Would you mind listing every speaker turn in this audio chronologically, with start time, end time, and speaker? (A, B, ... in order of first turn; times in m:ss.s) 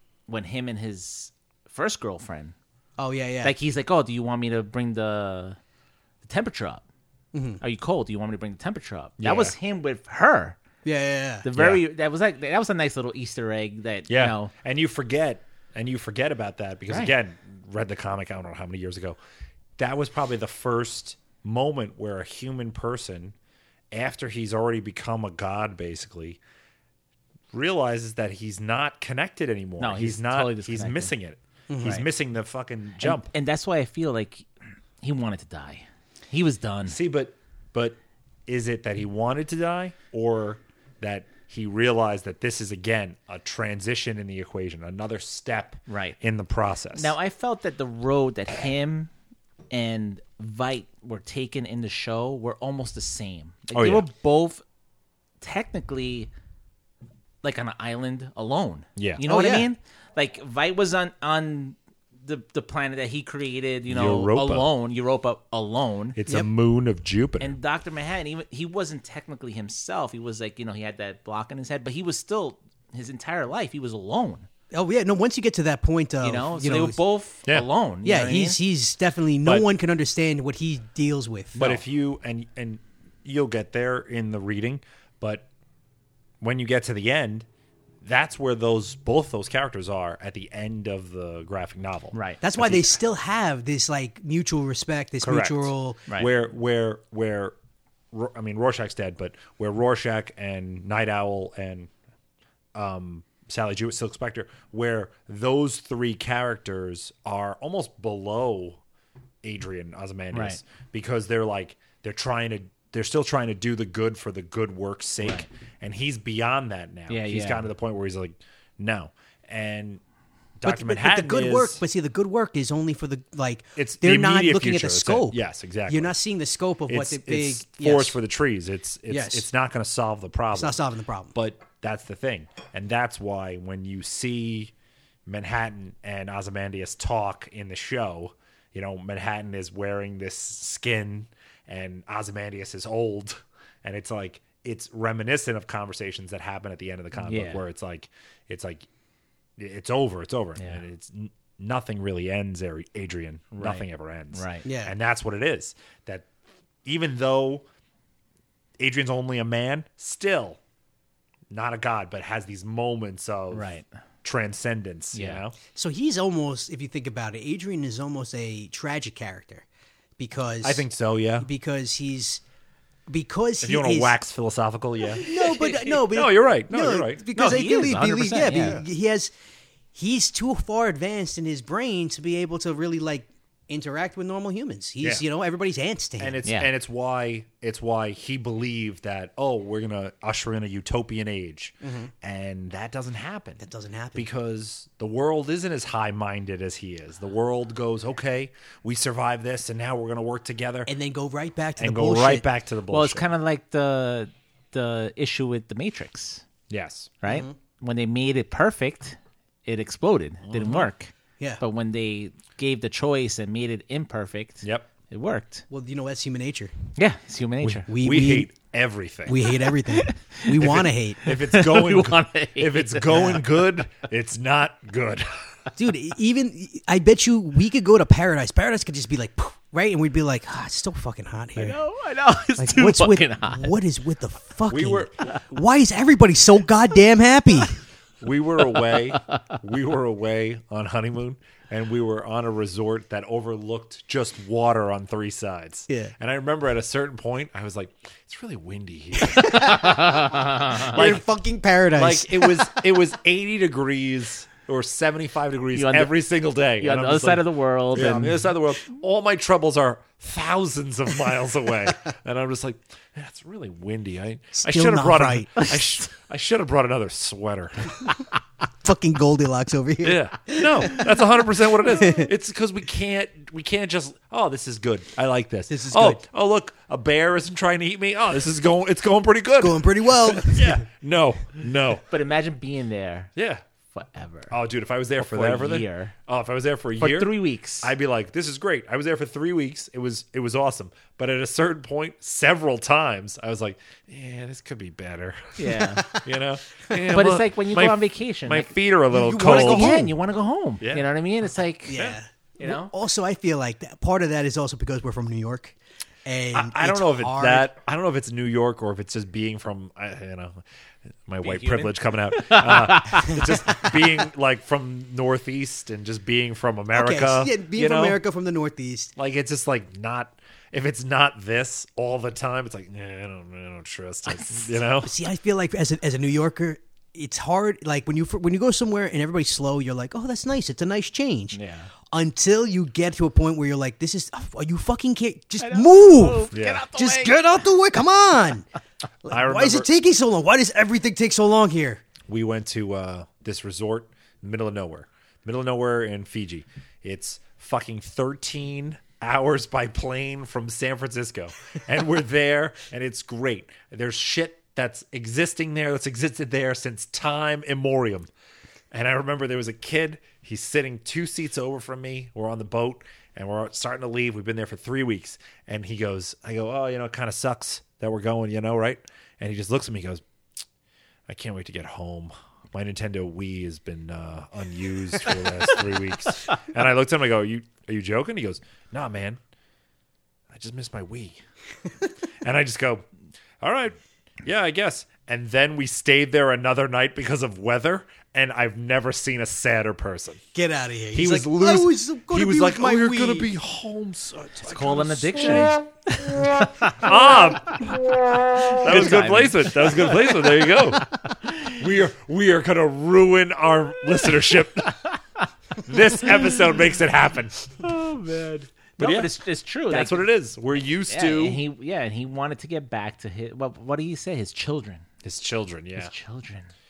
0:00.3-0:02.6 A
0:03.0-0:03.5 B
0:03.4-0:05.6 A
0:06.2-0:06.8 A
0:07.3-0:07.6 B
0:07.6-0:10.6 A
0:09.2-0:09.6 C
0:10.8-0:11.5 B
0:11.4-0:14.5 A
0:11.6-0:11.8 C
0:14.1-0:19.2 C
0:19.8-0:23.4 C
0:23.9-0:26.4 C
0:27.5-0:33.3 C
0:29.8-0:31.1 A
0:31.7-0:32.0 B
0:33.0-0:34.5 A
0:35.0-0:37.0 A
0:36.9-0:47.1 C
0:45.9-0:46.2 A
0:47.0-0:49.1 A
0:49.7-0:54.6 A
0:53.7-0:54.1 C
0:55.4-0:56.3 A
0:57.4-1:06.2 A
0:59.0-0:59.2 C
0:59.3-0:59.7 B
1:03.9-1:04.7 C
1:06.2-1:07.6 C
1:07.4-1:14.5 A
1:14.7-1:17.0 B
1:16.2-1:18.6 A
1:18.0-1:21.8 B
1:21.6-1:25.5 C
1:26.4-1:27.5 C
1:28.0-1:33.0 C
1:32.1-1:32.4 A
1:32.4-1:36.0 B
1:35.2-1:37.5 C
1:38.1-1:41.9 C
1:42.8-1:48.8 C
1:49.4-2:00.0 C
1:50.3-1:50.6 A
1:55.2-1:55.5 A
1:57.1-1:57.6 A
2:00.6-2:01.8 C
2:00.6-2:05.4 B
2:03.8-2:06.1 C
2:05.9-2:08.2 B
2:06.9-2:10.8 C
2:09.1-2:09.5 B
2:10.5-2:11.3 B
2:11.4-2:14.7 C
2:15.3-2:28.9 C
2:27.2-2:27.6 A
2:29.6-2:36.3 C
2:33.5-2:34.7 A
2:34.7-2:34.9 B
2:36.8-2:37.6 C
2:38.8-2:40.6 C
2:41.5-2:43.7 C
2:43.5-2:43.9 A
2:44.2-2:45.6 C
2:45.1-2:45.4 A
2:45.7-2:49.6 B
2:50.2-2:50.8 B
2:50.6-2:51.5 C
2:51.4-2:52.4 B
2:53.1-2:54.1 B
2:53.6-2:57.2 C
2:55.2-2:59.3 B
2:55.3-2:55.9 A
2:57.3-2:58.8 A
2:58.5-2:58.8 C
3:00.0-3:06.4 B
3:06.2-3:13.6 C
3:11.8-3:12.1 B
3:13.6-3:14.3 B
3:14.2-3:20.9 C
3:20.9-3:22.5 B
3:21.8-3:23.3 C
3:22.9-3:26.4 A
3:26.7-3:27.2 C
3:27.2-3:35.6 A
3:27.3-3:27.5 B
3:30.4-3:30.9 C
3:34.6-3:34.9 C
3:35.7-3:36.7 B
3:37.0-3:37.9 A
3:37.6-3:39.5 C
3:37.9-3:38.5 B
3:39.3-3:41.3 B
3:39.9-3:43.4 A
3:40.6-3:45.3 C
3:43.1-3:43.4 B
3:45.8-3:51.8 B
3:51.6-3:53.8 A
3:52.6-3:57.8 B
3:54.7-3:55.4 C
3:58.2-4:10.0 C
3:58.8-3:59.6 A
4:09.2-4:12.8 B
4:09.4-4:11.1 A
4:10.8-4:11.2 C
4:12.0-4:28.1 C
4:15.7-4:16.2 A
4:16.8-4:18.5 A
4:24.6-4:25.6 B
4:28.8-4:31.1 B
4:30.0-4:42.0 C
4:32.0-4:32.3 B
4:35.7-4:36.2 B
4:39.6-4:40.8 B
4:42.1-4:43.3 A
4:43.4-4:43.6 C
4:43.9-4:44.6 A
4:44.5-5:00.0 C
4:45.2-4:46.1 A
4:47.0-4:47.9 A
4:55.6-4:56.1 A
4:56.0-4:56.2 B
4:57.1-4:58.7 A
4:59.1-5:00.1 B
4:59.4-5:02.0 A
5:00.8-5:01.1 C
5:01.9-5:07.7 B
5:01.9-5:02.2 C
5:02.6-5:02.9 A
5:06.5-5:10.6 C
5:11.3-5:18.2 C
5:11.4-5:13.9 A
5:16.9-5:19.1 B
5:19.2-5:25.1 C
5:24.3-5:24.7 A
5:25.0-5:31.6 B
5:31.5-5:31.9 A
5:32.1-5:38.7 B
5:35.6-5:37.4 A
5:36.5-5:36.9 C
5:39.2-5:42.0 B
5:39.3-5:39.9 C
5:42.3-5:58.3 C
5:58.9-6:10.2 C
6:11.3-6:19.4 C
6:20.5-6:21.4 C
6:22.4-6:23.1 C
6:23.6-6:30.4 C
6:30.6-6:33.5 B
6:31.1-6:35.8 C
6:34.6-6:41.8 A
6:36.9-6:37.9 C
6:38.8-6:41.1 C
6:41.7-6:45.0 C
6:45.8-6:47.8 C
6:47.8-6:50.3 A
6:49.0-6:49.3 C
6:49.9-6:51.6 C
6:51.1-6:55.1 A
6:55.2-6:56.1 C
6:56.0-6:56.7 A